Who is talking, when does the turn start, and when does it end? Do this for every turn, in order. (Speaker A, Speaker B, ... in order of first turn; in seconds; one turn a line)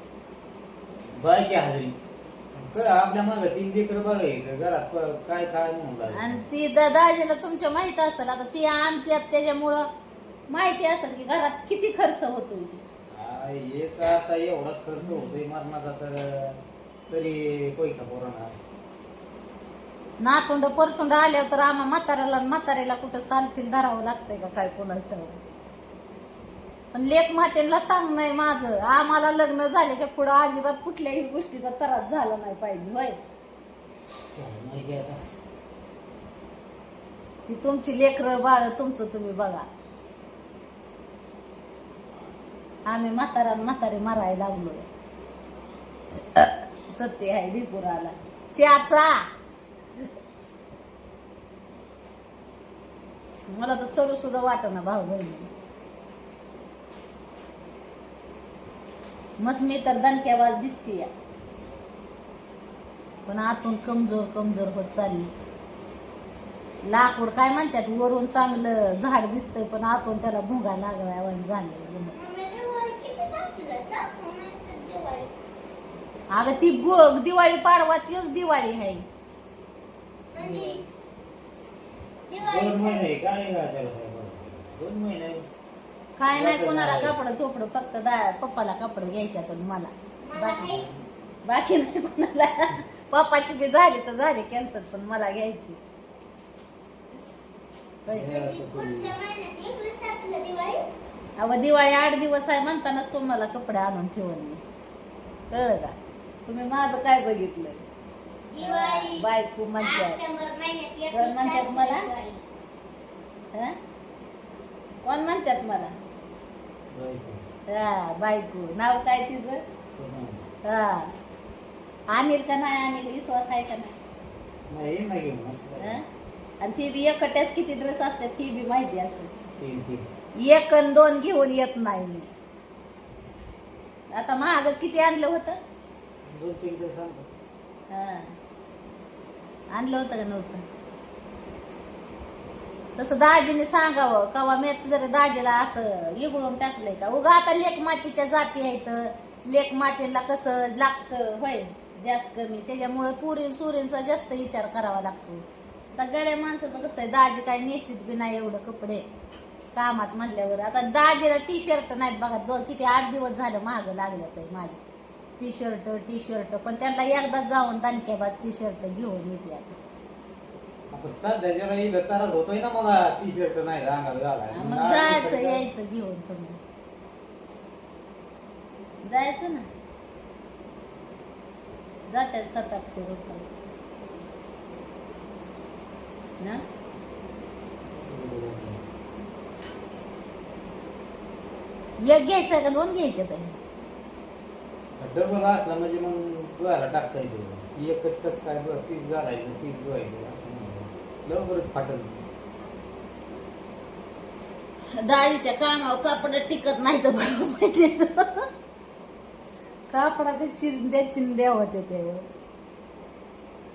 Speaker A: 1.1-2.0
Speaker A: 2.5-6.4
Speaker B: 6.1-9.9
Speaker B: 10.5-12.8
Speaker A: 13.1-18.6
Speaker B: 20.2-25.4
Speaker B: 26.9-33.2
Speaker A: 34.4-35.2
Speaker B: 37.5-39.7
Speaker B: 42.9-44.9
Speaker B: 46.3-49.2
Speaker B: 53.5-55.5
Speaker B: 59.4-61.1
Speaker B: 63.3-65.3
Speaker B: 66.9-72.1
Speaker C: 72.1-75.3
Speaker B: 76.3-79.0
Speaker C: 80.3-80.8
Speaker B: 80.4-80.8
Speaker C: 82.3-83.1
Speaker A: 82.4-85.5
Speaker B: 86.2-90.8
Speaker A: 86.3-87.2
Speaker C: 90.2-91.0
Speaker B: 91.4-95.8
Speaker B: 98.0-98.3
Speaker A: 98.1-99.1
Speaker C: 98.2-100.8
Speaker B: 101.4-104.6
Speaker B: 105.5-105.9
Speaker B: 106.5-107.8
Speaker C: 108.5-109.2
Speaker B: 108.6-110.2
Speaker C: 109.8-112.4
Speaker B: 111.1-112.1
Speaker B: 115.0-115.9
Speaker A: 116.9-117.4
Speaker B: 117.7-119.6
Speaker A: 120.0-120.5
Speaker B: 120.6-121.1
Speaker B: 122.1-124.0
Speaker A: 124.7-126.0
Speaker B: 125.8-126.0
Speaker B: 126.6-129.3
Speaker A: 129.6-130.1
Speaker B: 130.4-132.3
Speaker B: 134.1-135.6
Speaker A: 136.2-137.3
Speaker B: 137.9-138.3
Speaker B: 139.7-140.6
Speaker B: 143.0-159.0
Speaker B: 159.7-164.8
Speaker B: 165.4-169.8
Speaker A: 170.9-175.6
Speaker B: 174.5-176.6
Speaker B: 179.0-179.7
Speaker B: 182.1-183.5
Speaker A: 187.9-188.8
Speaker B: 192.0-193.6
Speaker A: 195.0-202.2
Speaker B: 204.9-208.5
Speaker B: 209.9-212.2